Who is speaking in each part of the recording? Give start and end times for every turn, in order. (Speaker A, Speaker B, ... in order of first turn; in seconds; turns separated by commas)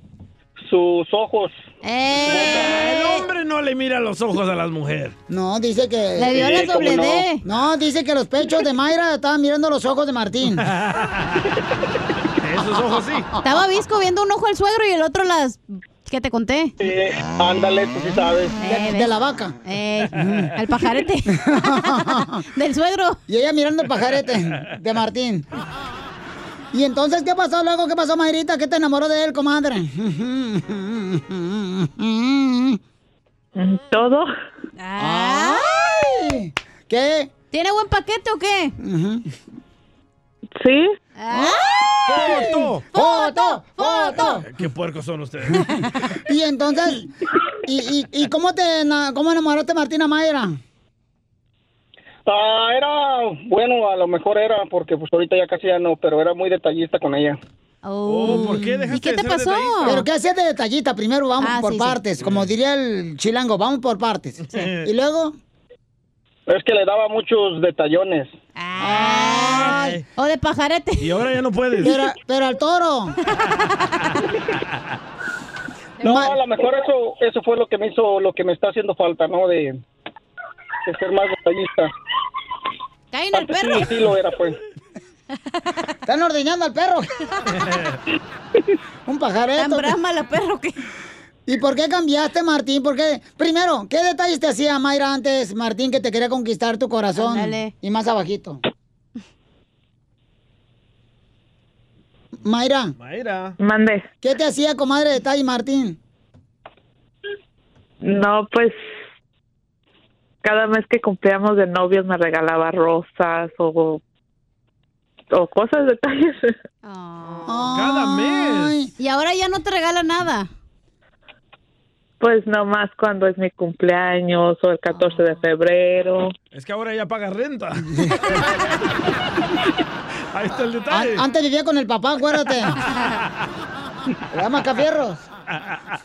Speaker A: 0.6-1.6, Speaker B: 1.8-3.3, Speaker A: 2.2-2.8, Speaker C: 2.3-5.2, Speaker D: 5.3-10.7, Speaker B: 6.2-7.4, Speaker A: 6.4-7.2, Speaker C: 10.6-11.4, Speaker C: 12.4-13.3, Speaker B: 13.4-16.7, Speaker A: 16.8-18.6, Speaker B: 18.6-19.1, Speaker D: 18.7-19.6, Speaker B: 19.6-23.2, Speaker D: 20.1-20.5, Speaker D: 21.3-22.4, Speaker D: 23.3-25.5, Speaker D: 26.7-32.8, Speaker E: 33.6-34.3, Speaker B: 34.8-35.7, Speaker D: 35.0-37.3, Speaker B: 37.5-38.8, Speaker D: 38.8-39.2, Speaker E: 40.6-40.9, Speaker B: 41.2-44.4, Speaker D: 41.3-44.5, Speaker C: 42.1-42.9, Speaker C: 44.2-45.7, Speaker D: 46.2-47.1, Speaker D: 47.6-50.6, Speaker A: 52.2-57.4, Speaker B: 57.9-60.0, Speaker C: 58.1-60.0, Speaker D: 58.3-58.6, Speaker D: 59.9-65.4, Speaker B: 61.4-62.0, Speaker C: 62.2-62.5, Speaker C: 64.5-64.9, Speaker A: 66.5-68.3, Speaker B: 68.6-71.1, Speaker D: 68.8-70.0, Speaker C: 69.5-70.0, Speaker C: 71.0-72.0, Speaker D: 71.8-73.2, Speaker B: 76.0-76.3, Speaker D: 76.0-76.3, Speaker A: 76.0-79.8, Speaker A: 80.8-81.9, Speaker B: 83.1-84.0, Speaker A: 83.3-84.6, Speaker D: 86.1-87.1, Speaker D: 89.1-90.0, Speaker B: 89.6-90.8, Speaker D: 91.5-98.6, Speaker B: 97.2-97.7, Speaker D: 102.4-103.0, Speaker C: 103.0-103.5, Speaker E: 103.6-104.1, Speaker D: 104.2-106.0, Speaker E: 108.0-108.8, Speaker E: 110.4-114.0, Speaker E: 115.3-116.5, Speaker B: 116.8-117.7, Speaker D: 117.5-118.9, Speaker C: 117.5-118.8, Speaker B: 119.0-120.5, Speaker E: 122.2-126.3, Speaker C: 126.5-128.4, Speaker C: 130.3-131.2, Speaker D: 130.9-132.8, Speaker D: 134.3-135.2